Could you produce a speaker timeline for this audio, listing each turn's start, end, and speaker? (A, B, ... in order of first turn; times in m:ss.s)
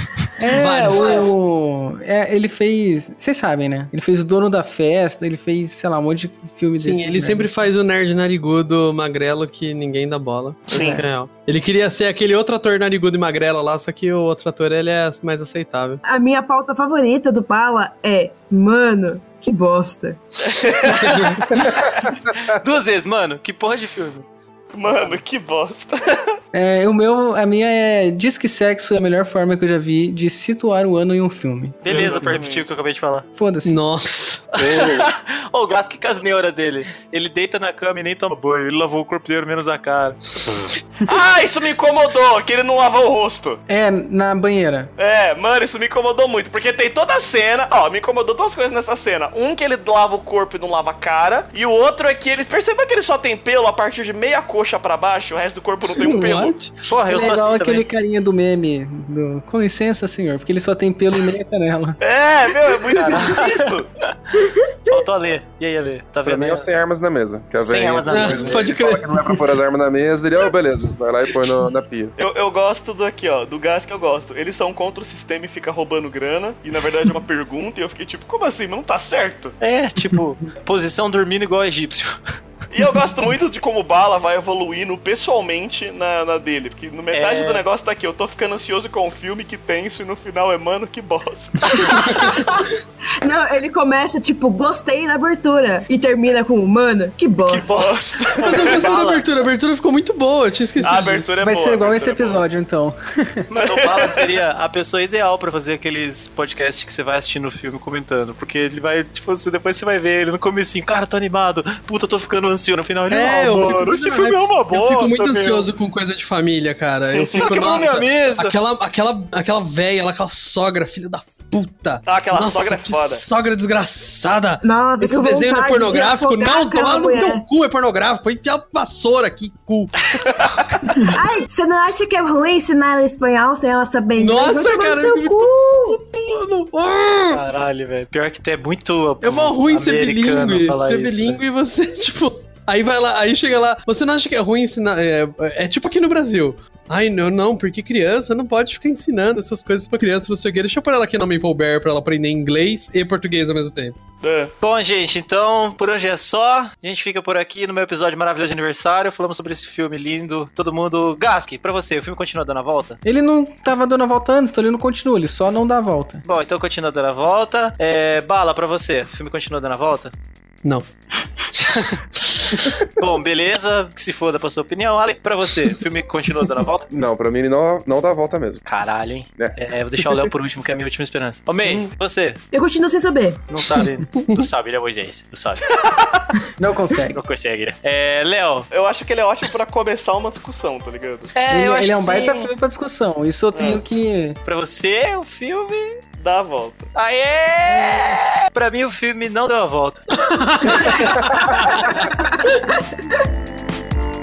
0:00.4-0:07.5 A
0:00.5-0:01.0 B
0:00.6-0:01.3 C
0:06.8-0:16.0 B
0:10.7-0:11.0 D
0:10.7-0:11.0 A
0:16.0-0:20.2 C
0:20.4-0:21.1 D
0:20.8-0:24.2 E
0:24.7-0:26.3 D
0:26.5-0:32.4 A
0:31.8-0:33.2 E
0:31.8-0:32.7 D
0:33.4-0:33.8 A
0:33.6-0:34.8 B
0:34.6-0:40.6 E
0:34.7-0:35.0 F
0:41.0-0:43.6 D
0:43.7-0:44.9 A
0:45.0-0:56.5 D
0:55.9-0:56.8 B
0:56.9-0:57.8 E
0:57.1-1:02.0 A
1:02.0-1:03.9 D
1:02.9-1:03.7 E
1:04.9-1:06.8 E
1:06.2-1:12.1 F
1:07.6-1:08.7 E
1:08.1-1:09.6 B
1:12.2-1:19.6 D
1:19.6-1:22.2 E
1:22.7-1:32.0 D
1:27.1-1:27.6 E
1:31.7-1:32.7 C
1:32.0-1:32.3 B
1:33.2-1:37.7 C
1:37.4-1:39.2 E
1:37.7-1:38.8 D
1:38.4-1:41.3 B
1:40.8-1:42.4 D
1:41.4-1:43.5 A
1:43.5-1:55.7 E
1:43.6-1:44.3 D
1:53.1-2:09.9 B
1:57.1-1:58.0 D
1:57.4-1:58.6 E
2:02.0-2:03.2 D
2:04.6-2:07.4 C
2:10.3-2:10.7 D
2:11.0-2:16.0 C
2:14.2-2:17.4 B
2:17.3-2:21.4 E
2:19.2-2:34.0 B
2:34.2-2:34.5 D
2:34.6-2:43.0 E
2:43.0-2:46.2 A
2:46.2-2:50.1 E
2:51.4-2:51.9 B
2:52.5-2:56.9 E
2:56.9-2:58.6 F
2:58.6-3:02.4 E
3:02.5-3:03.4 C
3:03.5-3:05.7 E
3:04.2-3:04.5 B
3:05.7-3:06.1 D
3:06.6-3:07.2 A
3:07.1-3:08.7 E
3:08.7-3:11.3 D
3:11.3-3:12.5 E
3:11.5-3:14.4 A
3:13.5-3:13.8 D
3:14.4-3:16.0 E
3:16.2-3:16.9 D
3:16.9-3:22.0 E
3:20.2-3:21.8 B
3:22.1-3:22.6 C